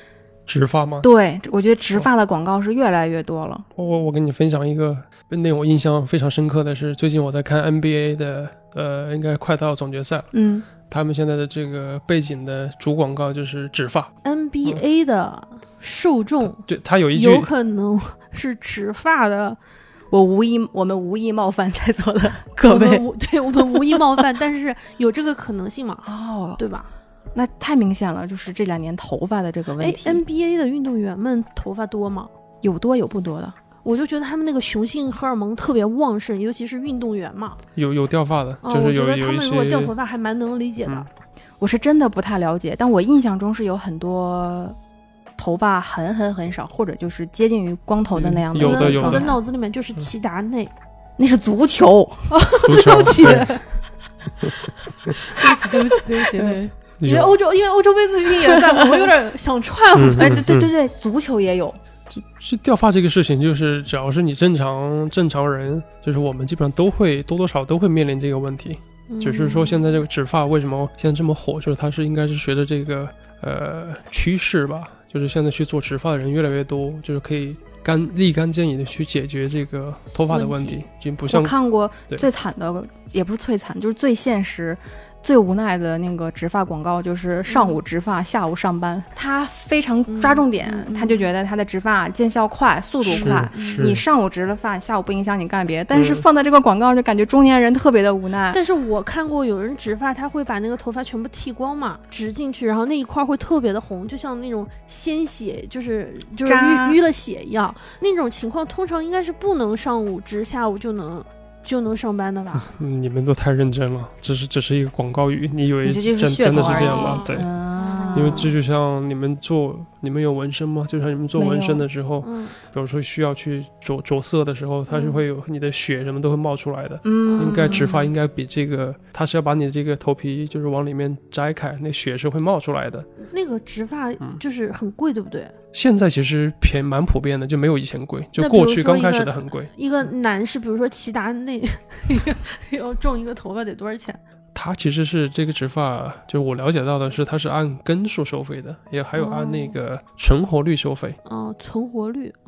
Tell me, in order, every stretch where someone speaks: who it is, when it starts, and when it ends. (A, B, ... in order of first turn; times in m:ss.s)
0:00.5-0:01.1 A
0:01.0-0:03.7 B
0:03.8-0:10.3 A
0:10.3-0:10.7 B
0:10.9-0:14.1 A
0:14.2-0:16.6 C
0:16.4-0:17.5 A
0:17.1-0:19.6 C
0:20.1-0:23.0 B
0:22.6-0:26.9 C
0:23.6-0:24.1 B
0:26.0-0:26.6 B
0:27.3-0:30.2 B
0:29.8-0:32.3 C
0:32.6-0:33.6 B
0:33.8-0:37.6 C
0:37.8-0:39.9 A
0:38.6-0:41.1 C
0:41.6-0:44.8 B
0:45.4-0:49.4 B
0:48.2-0:49.4 A
0:48.6-0:50.7 C
0:51.2-0:52.3 B
0:52.3-0:53.6 C
0:52.6-0:53.5 A
0:55.1-1:00.4 C
0:55.4-0:56.6 B
0:57.0-0:57.4 A
0:58.4-0:59.1 B
1:00.0-1:00.7 A
1:00.2-1:01.8 B
1:02.1-1:21.5 A
1:09.1-1:09.8 C
1:20.3-1:20.8 C
1:21.3-1:38.6 B
1:27.5-1:27.8 C
1:30.1-1:31.3 C
1:33.1-1:33.9 C
1:33.1-1:34.0 A
1:35.9-1:36.2 A
1:38.5-1:52.7 C
1:46.4-1:47.0 B
1:52.6-1:57.5 A
1:55.8-1:58.5 B
1:56.6-1:58.6 C
1:58.2-2:13.1 A
2:01.4-2:01.8 B
2:02.2-2:02.6 C
2:04.9-2:05.2 C
2:07.0-2:08.1 B
2:07.3-2:07.8 C
2:13.2-2:15.5 C
2:15.7-2:19.7 A
2:18.4-2:24.2 C
2:24.6-2:31.2 A
2:29.2-2:29.8 C
2:31.2-2:32.4 C